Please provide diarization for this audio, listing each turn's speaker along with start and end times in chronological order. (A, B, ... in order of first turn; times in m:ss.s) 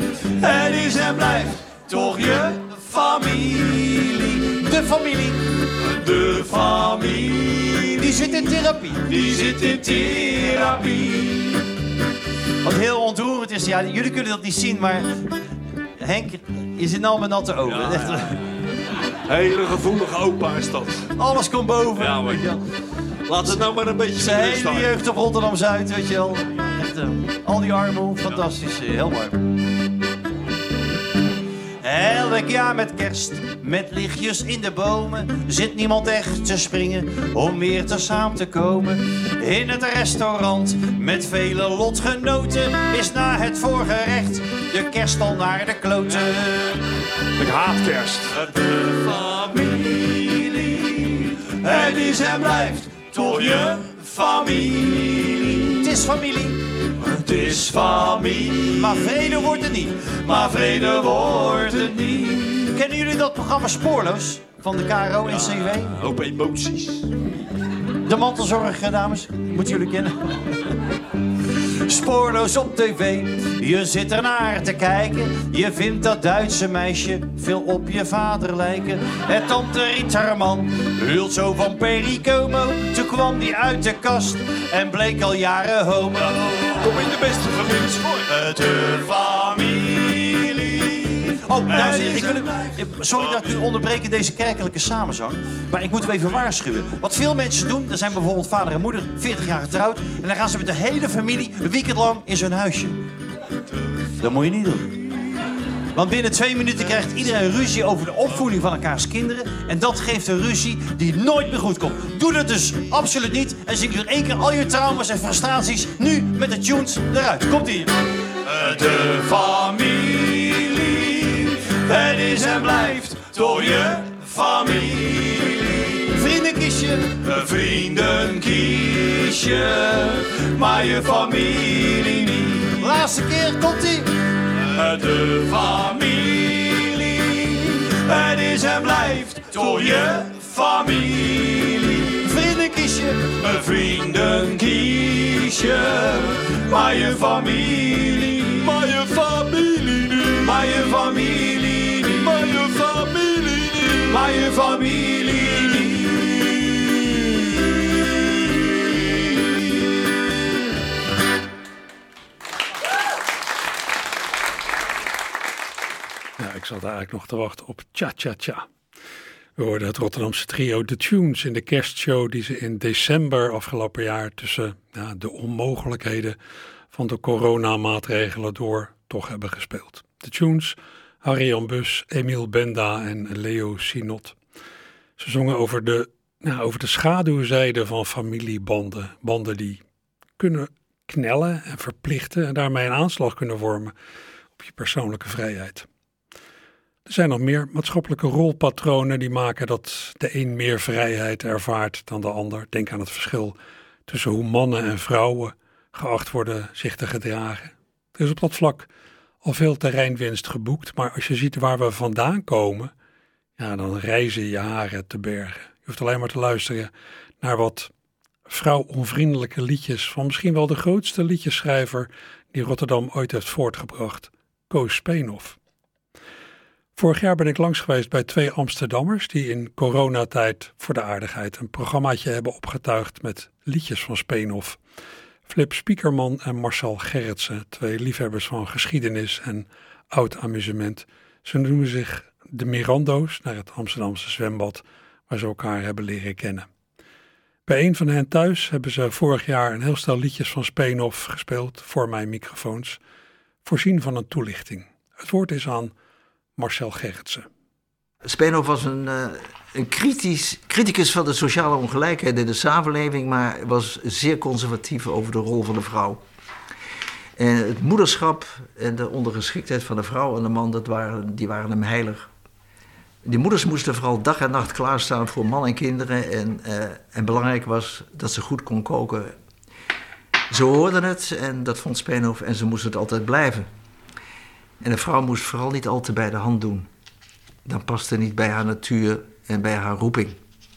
0:00.4-0:04.4 A
0:00.8-0:01.5 B
0:04.5-0:05.4 B
0:05.8-0:08.2 A
0:08.0-0:09.1 B
0:09.0-0:11.6 A
0:12.6-0:15.1 B
0:16.0-0:18.4 B
0:17.7-0:18.3 A
0:19.3-0:21.1 A
0:21.2-0:22.6 B
0:22.0-0:22.5 A
0:23.3-0:25.0 A
0:24.2-0:29.4 B
0:31.8-0:46.8 B
0:47.4-0:55.7 A
0:55.8-0:56.6 B
0:57.0-0:59.4 A
0:58.7-1:00.0 B
1:00.0-1:02.7 A
1:02.7-1:05.9 B
1:05.2-1:07.1 A
1:08.0-1:10.2 B
1:11.8-1:26.3 B
1:26.4-1:32.7 A
1:31.6-1:43.0 B
1:44.2-1:45.0 B
1:45.9-1:57.9 B
1:58.4-2:06.0 A
2:06.1-2:07.1 B
2:07.2-2:12.7 A
2:12.8-2:14.1 B
2:14.7-2:22.2 A
2:22.2-2:23.2 B
2:23.4-2:37.3 A
2:46.4-2:48.7 C
2:49.6-2:56.4 C
2:56.9-3:04.4 C
3:05.2-3:09.8 C
3:10.4-3:13.9 C
3:14.6-3:15.9 C
3:17.0-3:23.6 C
3:24.1-3:28.9 C
3:29.4-3:32.9 C
3:33.6-3:37.9 C
3:38.5-3:45.6 C
3:47.0-3:54.8 C
3:55.4-4:06.7 C
4:07.6-4:13.0 C
4:13.6-4:15.9 C
4:16.6-4:17.5 C
4:18.2-4:26.2 D
4:27.4-4:32.3 D
4:33.2-4:39.3 D
4:40.5-4:43.7 D
4:44.8-4:46.9 D
4:47.6-4:50.4 D